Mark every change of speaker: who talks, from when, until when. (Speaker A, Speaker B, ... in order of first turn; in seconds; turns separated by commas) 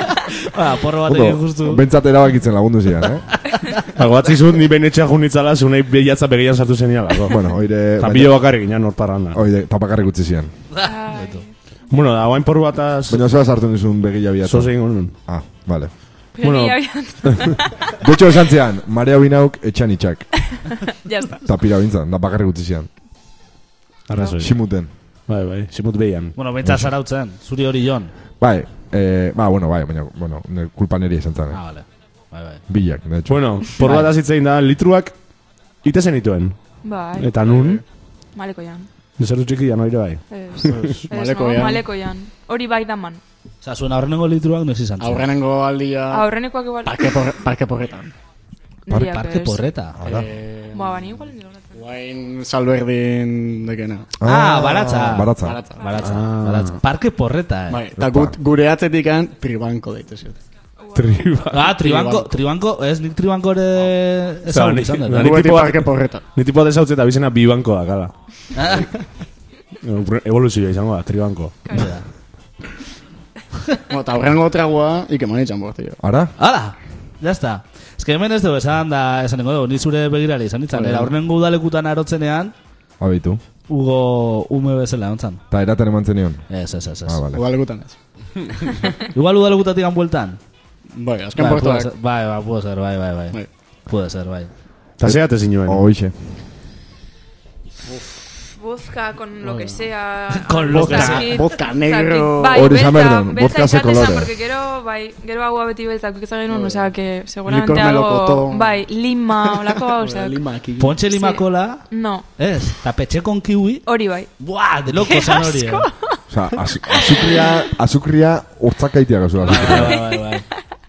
Speaker A: 0.4-1.8, Speaker B: 1.1-3.4, Speaker C: 3.9-7.4, Speaker B: 7.3-8.4, Speaker C: 8.0-9.4, Speaker B: 9.3-10.5, Speaker A: 10.7-11.4, Speaker D: 10.8-11.5, Speaker C: 11.9-13.2, Speaker B: 13.1-15.9, Speaker C: 14.4-15.2, Speaker D: 16.3-17.7, Speaker C: 16.4-17.4, Speaker B: 18.0-20.4, Speaker D: 20.9-21.4, Speaker B: 21.4-22.9, Speaker C: 24.1-24.5, Speaker B: 24.4-24.9, Speaker C: 25.3-26.4, Speaker A: 26.4-28.1, Speaker B: 28.4-31.6, Speaker A: 31.5-32.6, Speaker B: 32.7-33.7, Speaker C: 33.3-35.1, Speaker A: 33.8-34.1, Speaker C: 35.8-37.8, Speaker D: 36.8-37.3, Speaker E: 37.4-37.8, Speaker D: 38.3-38.9, Speaker C: 39.2-41.0, Speaker D: 40.3-43.2, Speaker E: 40.7-41.9, Speaker A: 43.6-45.2, Speaker E: 45.0-48.1, Speaker D: 46.1-47.2, Speaker D: 48.9-49.6, Speaker A: 48.9-50.0, Speaker B: 50.0-50.3, Speaker E: 50.0-54.1, Speaker D: 50.7-51.8, Speaker B: 54.2-55.6, Speaker A: 54.2-57.8, Speaker E: 55.4-55.9, Speaker D: 55.8-56.1, Speaker C: 56.0-56.8, Speaker E: 57.7-60.4, Speaker B: 58.0-58.3, Speaker D: 60.8-61.3, Speaker C: 60.9-61.7, Speaker A: 61.5-65.3, Speaker E: 61.7-62.4, Speaker C: 64.5-68.1, Speaker E: 65.2-66.2, Speaker A: 68.5-68.9, Speaker C: 69.8-71.7, Speaker A: 71.7-72.0, Speaker E: 73.9-76.0, Speaker B: 76.0-76.3, Speaker A: 76.4-82.5, Speaker E: 80.7-81.1, Speaker B: 83.0-83.4, Speaker A: 83.7-85.4, Speaker B: 85.5-86.5, Speaker A: 86.5-87.2, Speaker B: 87.0-87.4, Speaker E: 87.3-88.7, Speaker A: 89.1-90.4, Speaker E: 90.9-91.9, Speaker A: 91.3-94.5, Speaker C: 95.0-95.8, Speaker B: 95.0-96.1, Speaker E: 97.9-98.3, Speaker D: 98.5-110.4, Speaker E: 99.4-99.8, Speaker A: 100.3-101.4, Speaker E: 100.7-102.8, Speaker B: 102.5-104.3, Speaker E: 106.5-111.0, Speaker A: 110.8-115.9, Speaker D: 111.0-112.3, Speaker D: 113.8-114.3, Speaker D: 114.9-116.2, Speaker B: 116.3-120.0, Speaker D: 116.9-117.6, Speaker A: 119.4-120.5, Speaker D: 119.7-120.2